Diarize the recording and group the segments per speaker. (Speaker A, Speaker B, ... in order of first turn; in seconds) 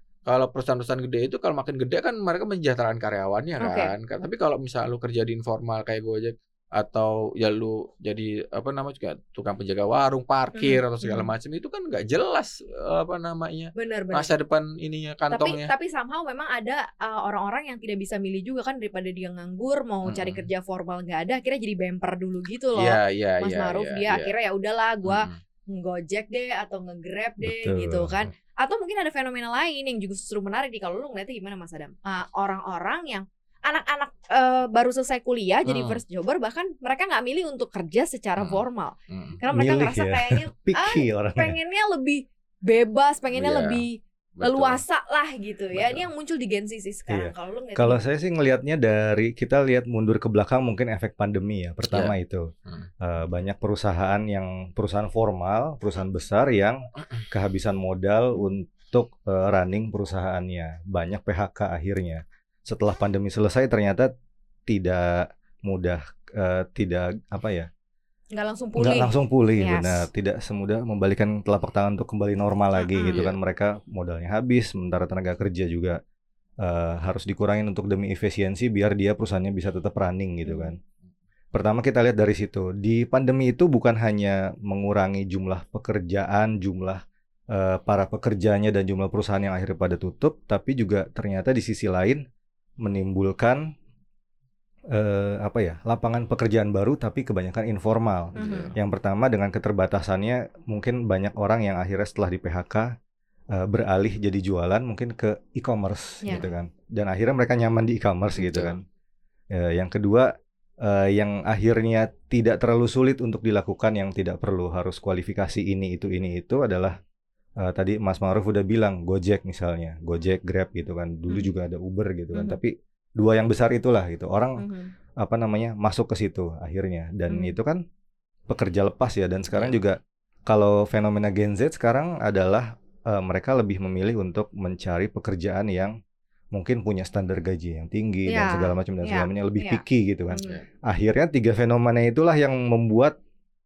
Speaker A: 0.3-15.7, 20.1-20.4, 22.8-24.3, 25.1-25.4, 35.7-36.0, 38.4-39.4, 43.4-43.8, 44.4-44.8, 45.7-46.0, 51.9-52.1, 73.0-73.3, 98.4-98.7, 108.4-108.8
Speaker B: 3.6-3.9, 10.6-11.3, 13.8-14.3, 15.3-48.0, 68.3-70.1, 72.8-73.2, 80.5-80.8, 98.4-98.7, 124.6-124.9, 138.3-139.8, 140.3-140.6
Speaker C: 27.4-28.1, 39.5-41.6, 47.1-52.5, 53.0-64.1, 64.7-67.7, 68.8-76.0, 76.6-80.8, 81.5-92.2, 92.8-93.7, 94.9-102.9, 103.5-108.8, 109.5-110.3, 110.8-117.0, 117.6-124.7, 125.2-127.8, 128.5-136.0, 136.5-143.2